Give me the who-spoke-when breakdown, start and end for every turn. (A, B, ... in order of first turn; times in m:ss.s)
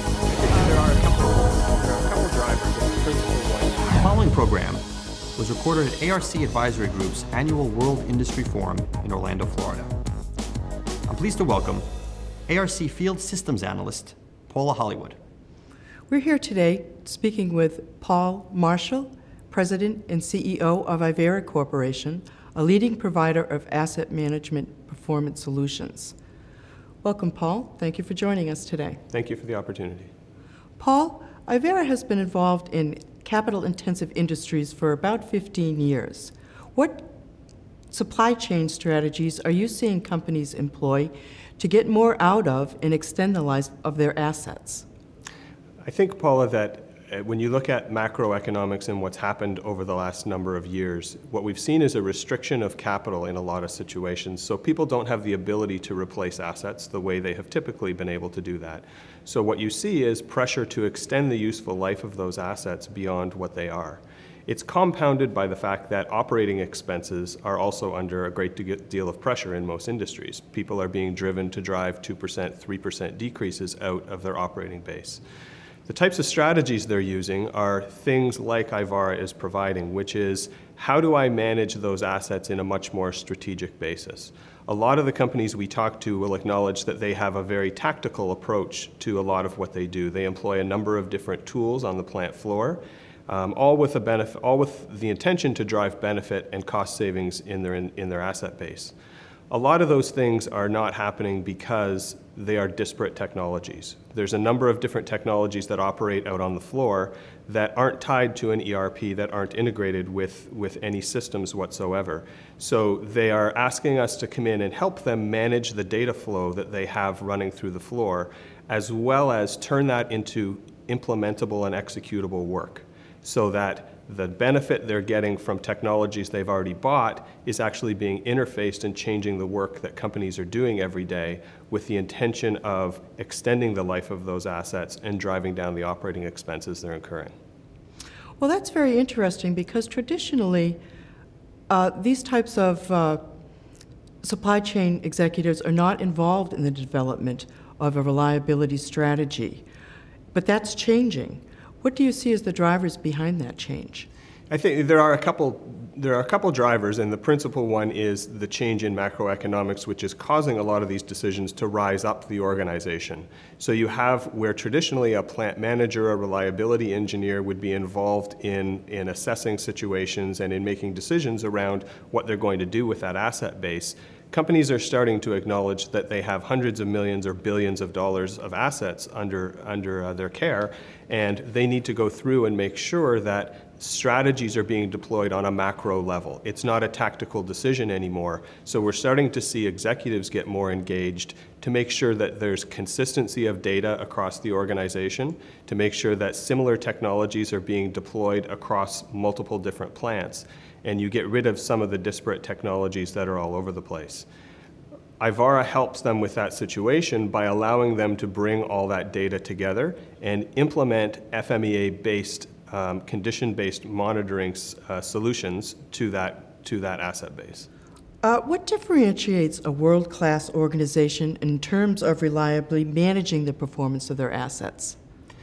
0:00.3-0:04.0 A
0:04.0-0:04.8 B
0:05.4-0:09.9 B
0:11.1-0:11.9 B
0:12.5-0:15.2 B
0:16.1-0:26.2 C
0:27.0-0:29.0 C
0:29.1-0:30.1 A
0:30.8-0:37.1 C
0:37.9-0:44.9 C
0:45.8-1:15.2 A
1:15.9-1:38.9 A
1:39.5-2:17.3 A
2:18.4-2:20.8 C
2:21.7-2:23.2 C
2:24.2-2:29.6 C
2:30.3-2:34.1 C
2:34.5-3:24.3 A
3:25.2-3:37.7 A
3:38.2-3:45.0 C